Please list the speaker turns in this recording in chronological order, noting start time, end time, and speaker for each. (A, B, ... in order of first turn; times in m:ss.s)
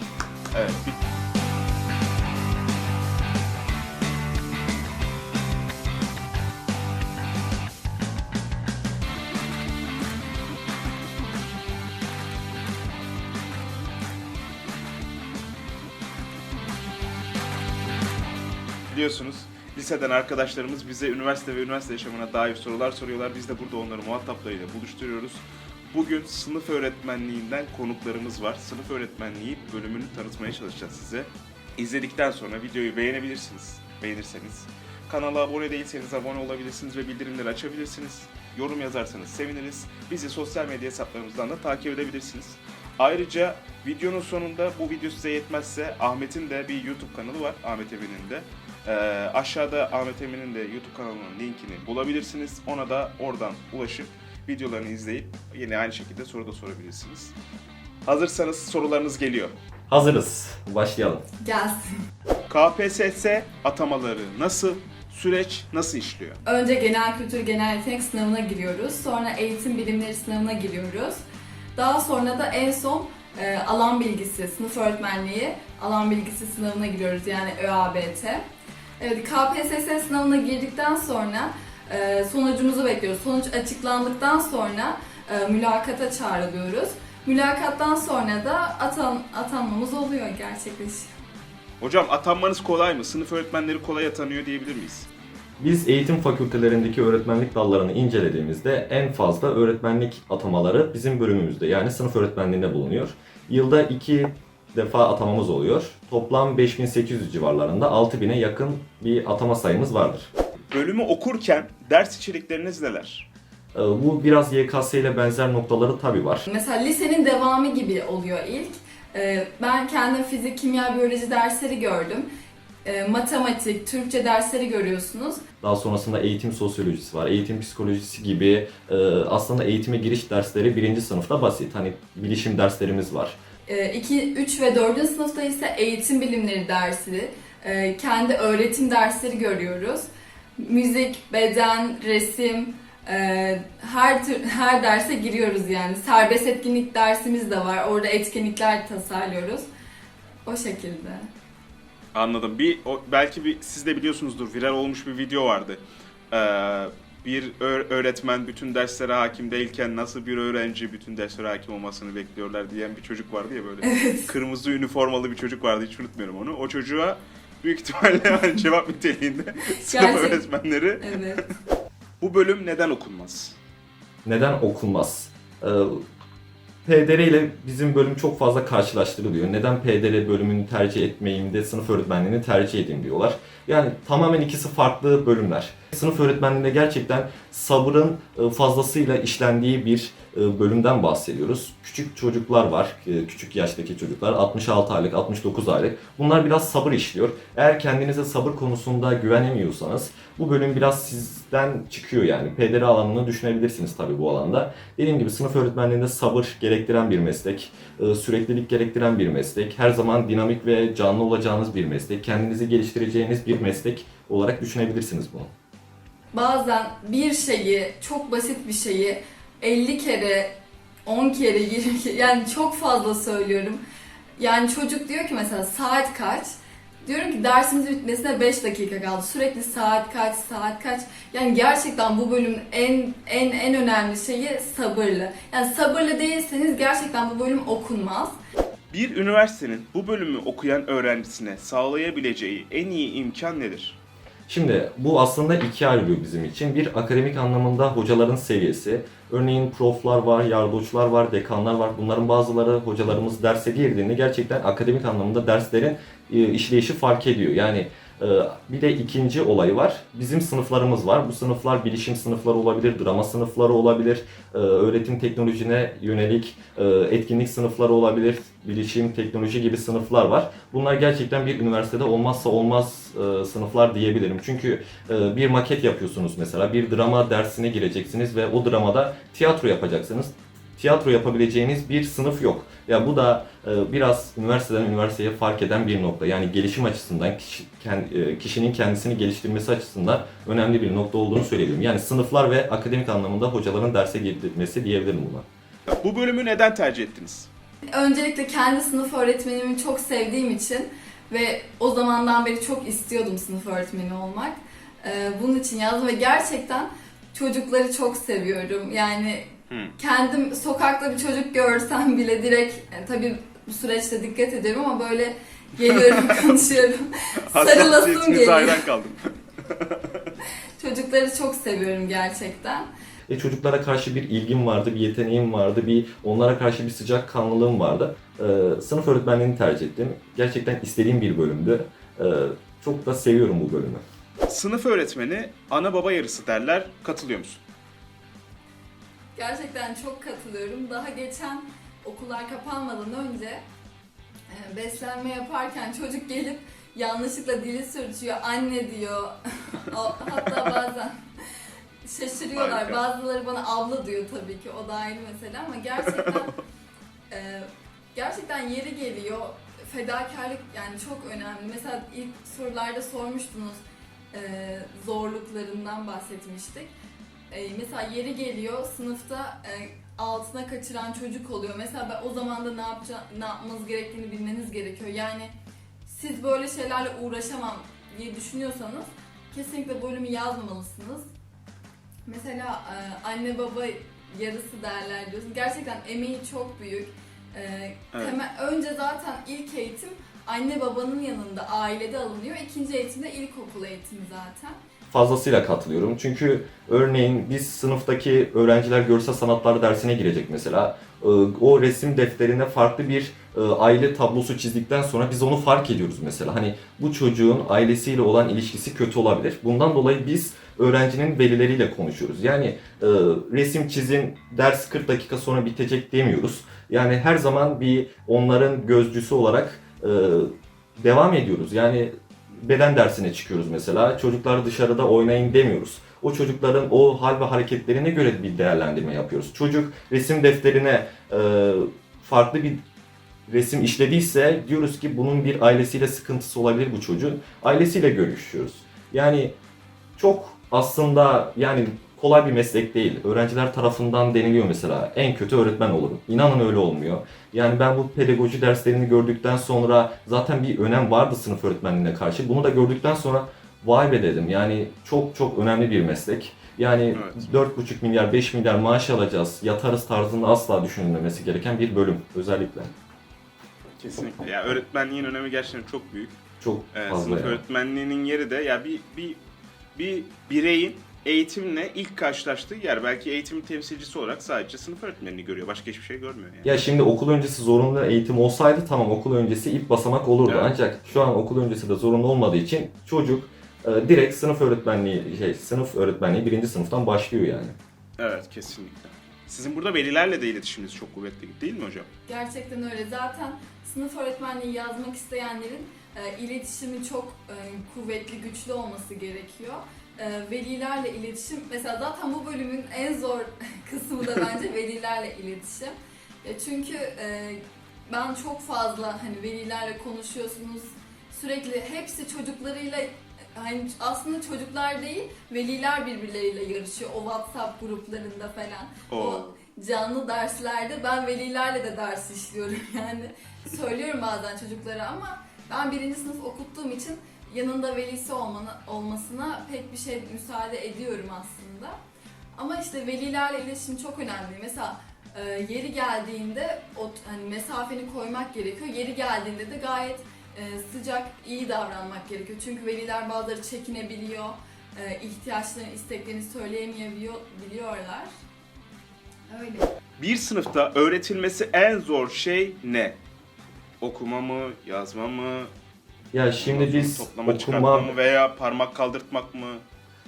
0:00.5-0:01.0 A
0:18.9-0:57.3 A
0:58.0-0:59.5 A
0:59.9-1:01.2 B
1:01.4-1:01.9 C
1:02.5-1:06.4 A
1:06.4-1:11.2 C
1:11.8-1:18.4 C
1:19.0-1:31.1 C
1:31.8-1:35.1 A
1:35.6-1:50.3 B
1:50.7-1:53.3 A
1:53.8-1:56.4 B
1:56.4-2:02.3 C
2:02.8-2:05.4 C
2:05.6-2:13.4 B
2:13.7-2:29.7 C
2:30.5-2:31.3 C
2:32.1-2:51.2 A
2:43.8-2:44.3 C
2:49.7-2:50.4 C
2:51.0-2:51.5 C
2:52.2-2:53.6 A
2:54.2-2:56.0 B
2:56.9-3:35.5 B
3:36.3-3:43.8 C
3:44.4-3:58.4 C
3:58.9-4:04.0 A
4:04.5-4:55.4 B
4:55.9-4:57.5 A
4:57.9-5:18.8 C
5:09.7-5:10.0 A
5:17.5-5:20.3 A
5:20.8-5:22.9 C
5:23.3-5:34.0 B
5:34.5-5:37.6 A
5:39.4-5:43.6 C
5:44.5-5:51.2 C
5:52.0-5:56.6 C
5:52.5-5:53.0 A
5:57.3-6:06.9 C
6:07.5-6:15.5 C
6:16.1-6:21.3 C
6:22.3-6:34.8 C
6:35.1-7:12.8 B
7:13.5-7:19.5 B
7:20.2-7:42.9 B
7:37.1-7:37.6 A
7:44.0-7:46.4 A
7:46.6-7:47.6 B
7:46.9-7:49.4 A
7:50.0-7:56.9 A
7:56.6-8:07.8 B
8:00.5-8:00.8 A
8:08.2-8:12.1 A
8:12.3-8:52.0 C
8:39.1-8:39.6 A
8:52.6-9:08.3 C
9:09.5-9:09.9 C
9:10.2-9:13.2 A
9:14.0-9:15.7 A
9:16.3-9:18.1 B
9:16.6-9:19.8 A